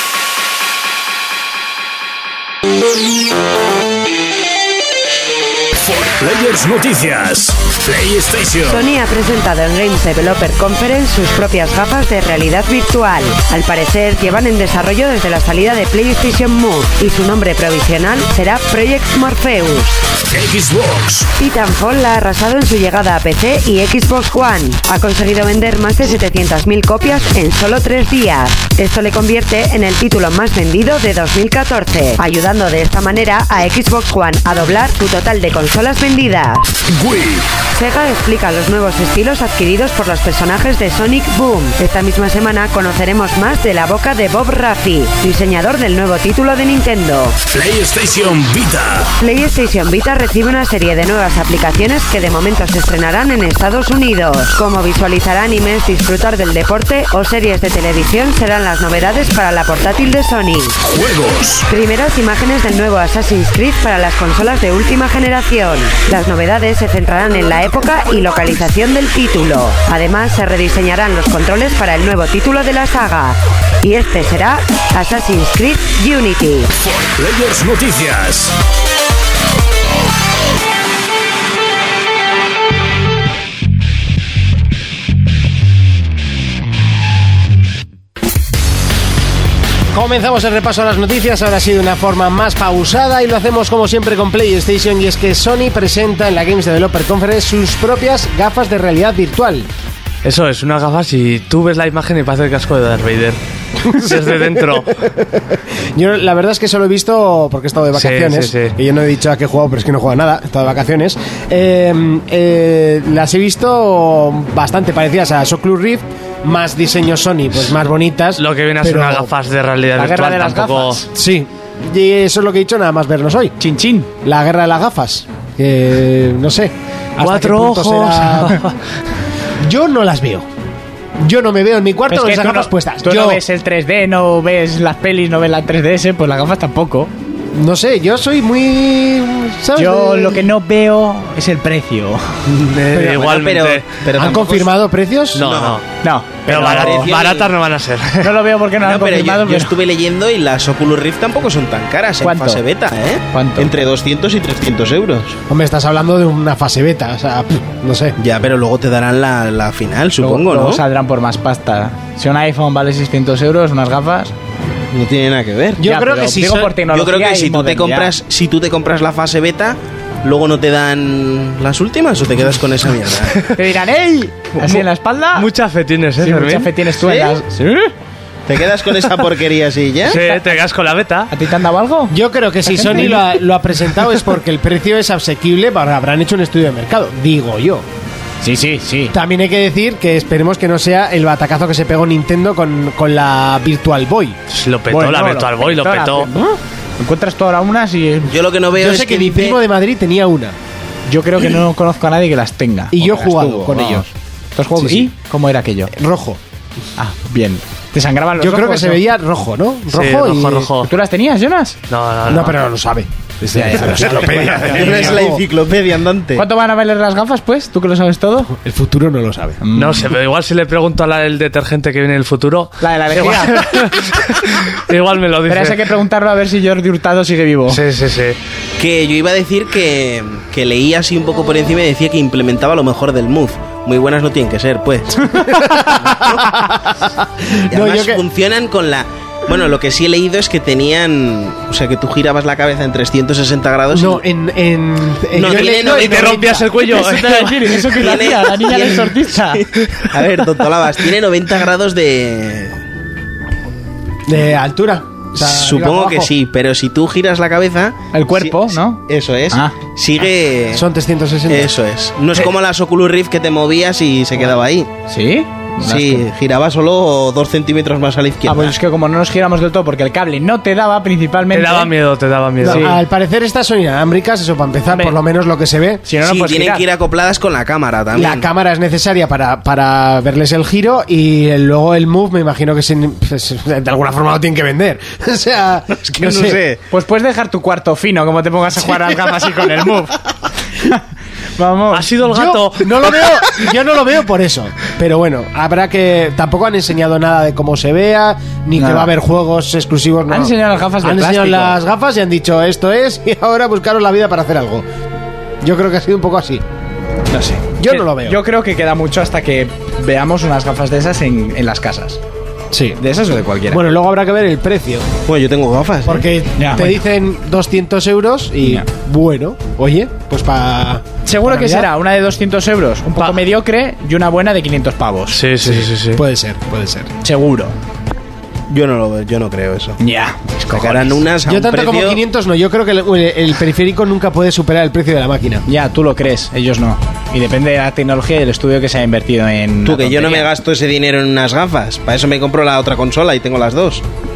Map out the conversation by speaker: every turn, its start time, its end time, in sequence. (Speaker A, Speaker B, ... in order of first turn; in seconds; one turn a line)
Speaker A: 5.8-8.8
Speaker B: 8.7-20.0
Speaker A: 20.3-21.3
Speaker B: 21.4-36.7
Speaker A: 36.9-37.5
Speaker B: 37.8-47.4
Speaker A: 47.5-49.1
Speaker B: 49.2-60.8
Speaker A: 60.8-61.7
Speaker B: 61.7-76.7
Speaker A: 76.8-78.5
Speaker C: 89.9-99.7
Speaker D: 100.2-105.0
Speaker C: 103.8-119.3
Speaker D: 108.0-108.8
Speaker D: 118.4-121.0
Speaker E: 120.0-121.1
Speaker C: 121.1-123.5
Speaker E: 123.6-124.1
Speaker C: 124.2-128.6
Speaker D: 127.2-128.8
Speaker C: 129.6-130.5
Speaker C: 131.2-133.4
Speaker E: 132.1-137.1
Speaker C: 137.6-140.5
Speaker E: 139.8-142.4
Speaker C: 142.5-143.3
Speaker D: 142.7-143.9
Speaker F: 143.2-144.7
Speaker C: 144.2-145.5
Speaker F: 145.3-145.8
Speaker D: 145.3-145.8
Speaker E: 146.0-147.1
Speaker D: 146.5-148.3
Speaker F: 146.5-147.5
Speaker E: 148.2-149.8
Speaker F: 148.8-155.4
Speaker E: 152.2-152.6
Speaker E: 153.3-153.7
Speaker C: 155.5-158.2
Speaker F: 158.2-160.8
Speaker E: 160.2-164.3
Speaker F: 164.9-165.9
Speaker C: 165.8-166.8
Speaker E: 165.8-168.2
Speaker F: 166.8-173.6
Speaker E: 173.6-175.5
Speaker D: 174.6-176.7
Speaker E: 176.2-177.9
Speaker F: 176.9-177.4
Speaker F: 178.5-180.2
Speaker D: 180.1-181.3
Speaker E: 180.1-180.6
Speaker E: 181.3-182.1
Speaker C: 182.1-187.8
Speaker E: 182.7-183.2
Speaker E: 188.4-189.2
Speaker C: 189.1-194.4
Speaker D: 194.5-196.3
Speaker E: 194.9-198.3
Speaker F: 198.3-199.6
Speaker C: 198.8-200.6
Speaker E: 201.1-205.9
Speaker C: 202.9-204.1
Speaker C: 204.8-205.1
Speaker C: 205.9-206.4
Speaker E: 207.0-209.1
Speaker C: 208.4-210.7
Speaker D: 209.9-210.9
Speaker E: 210.8-211.8
Speaker D: 211.9-212.6
Speaker C: 212.3-215.4
Speaker E: 213.5-215.2
Speaker F: 214.4-216.4
Speaker E: 216.3-218.5
Speaker C: 218.5-219.6
Speaker E: 219.6-220.1
Speaker D: 219.8-225.9
Speaker E: 222.8-223.9
Speaker E: 225.5-227.8
Speaker D: 227.7-228.4
Speaker F: 228.8-236.5
Speaker C: 235.4-238.2
Speaker F: 237.7-244.2
Speaker C: 243.9-246.7
Speaker F: 245.3-246.4
Speaker D: 245.5-247.9
Speaker E: 246.8-249.6
Speaker F: 247.8-252.8
Speaker C: 254.3-256.3
Speaker F: 255.4-260.8
Speaker E: 258.1-259.8
Speaker C: 260.7-261.7
Speaker F: 261.5-264.9
Speaker E: 265.1-266.3
Speaker F: 265.8-268.8
Speaker E: 268.5-271.9
Speaker D: 271.5-272.9
Speaker C: 272.6-276.0
Speaker E: 272.6-273.0
Speaker E: 274.9-275.2
Speaker E: 276.1-276.9
Speaker F: 276.2-278.5
Speaker C: 278.1-286.6
Speaker F: 286.2-286.8
Speaker E: 286.9-290.2
Speaker E: 291.6-292.1
Speaker D: 291.9-293.1
Speaker C: 292.2-304.9
Speaker E: 298.8-299.1
Speaker E: 300.3-301.8
Speaker C: 305.6-306.6
Speaker E: 307.3-312.2
Speaker C: 307.8-308.4
Speaker C: 312.7-313.0
Speaker E: 313.0-313.8
Speaker C: 313.7-315.1
Speaker F: 315.3-316.3
Speaker C: 316.1-321.9
Speaker E: 316.6-317.0
Speaker E: 321.3-325.7
Speaker D: 325.3-326.2
Speaker C: 326.1-327.1
Speaker E: 327.2-327.8
Speaker F: 328.7-330.0
Speaker E: 330.0-331.2
Speaker F: 330.7-332.2
Speaker C: 331.4-335.6
Speaker E: 335.7-340.5
Speaker F: 339.8-344.0